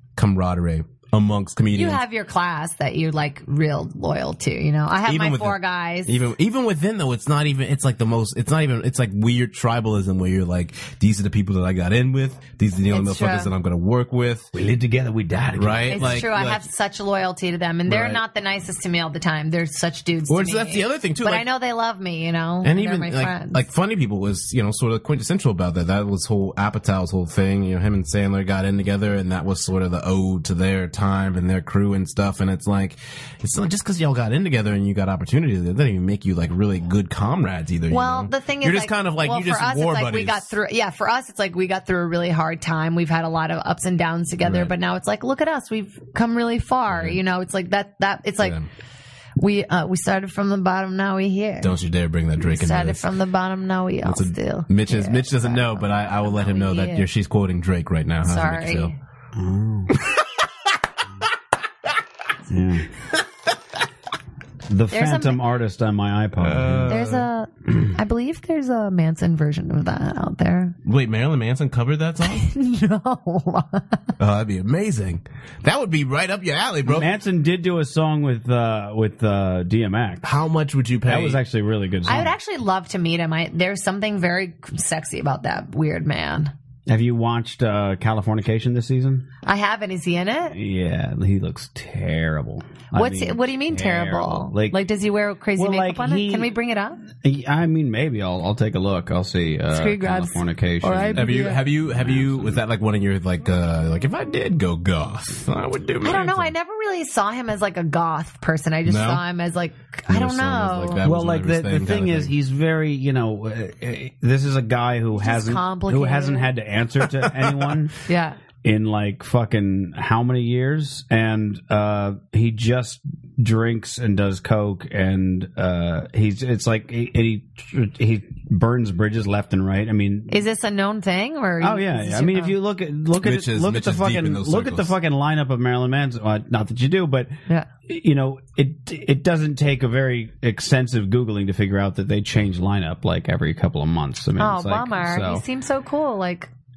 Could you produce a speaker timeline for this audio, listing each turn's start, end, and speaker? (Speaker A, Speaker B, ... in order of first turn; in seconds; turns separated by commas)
Speaker A: 0.1-2.0, Speaker B: 1.7-6.1, Speaker A: 5.0-14.5, Speaker B: 12.9-13.5, Speaker C: 14.5-16.2, Speaker A: 15.6-16.6, Speaker B: 15.9-23.6, Speaker A: 17.9-18.2, Speaker A: 20.3-21.4, Speaker A: 22.6-40.5, Speaker B: 37.9-48.6, Speaker A: 44.4-44.7, Speaker A: 46.9-47.2, Speaker A: 48.4-48.7, Speaker B: 49.4-51.7, Speaker A: 51.6-53.1, Speaker B: 52.4-57.1, Speaker A: 54.0-58.9, Speaker B: 58.2-58.9, Speaker C: 59.3-59.9, Speaker C: 62.5-62.9, Speaker C: 64.7-67.0, Speaker B: 64.9-65.4, Speaker A: 66.4-67.3, Speaker B: 66.9-70.7, Speaker A: 70.8-72.5, Speaker B: 72.2-74.0, Speaker A: 74.2-77.1, Speaker C: 76.8-80.3, Speaker A: 80.2-81.4, Speaker C: 81.0-82.3, Speaker B: 82.0-86.5, Speaker C: 86.9-89.2, Speaker B: 89.4-90.6, Speaker C: 90.5-94.8, Speaker B: 92.9-97.0, Speaker C: 95.5-96.5, Speaker C: 97.2-101.4, Speaker B: 99.7-101.6, Speaker A: 101.1-106.5, Speaker C: 101.9-102.2, Speaker B: 106.0-111.0, Speaker A: 108.8-109.2, Speaker A: 110.1-112.3, Speaker C: 111.0-117.9, Speaker B: 115.1-116.5, Speaker B: 118.1-118.4, Speaker C: 118.6-130.4, Speaker B: 130.3-132.6, Speaker C: 131.6-137.3, Speaker A: 133.2-134.9, Speaker C: 137.9-145.4, Speaker B: 144.4-146.5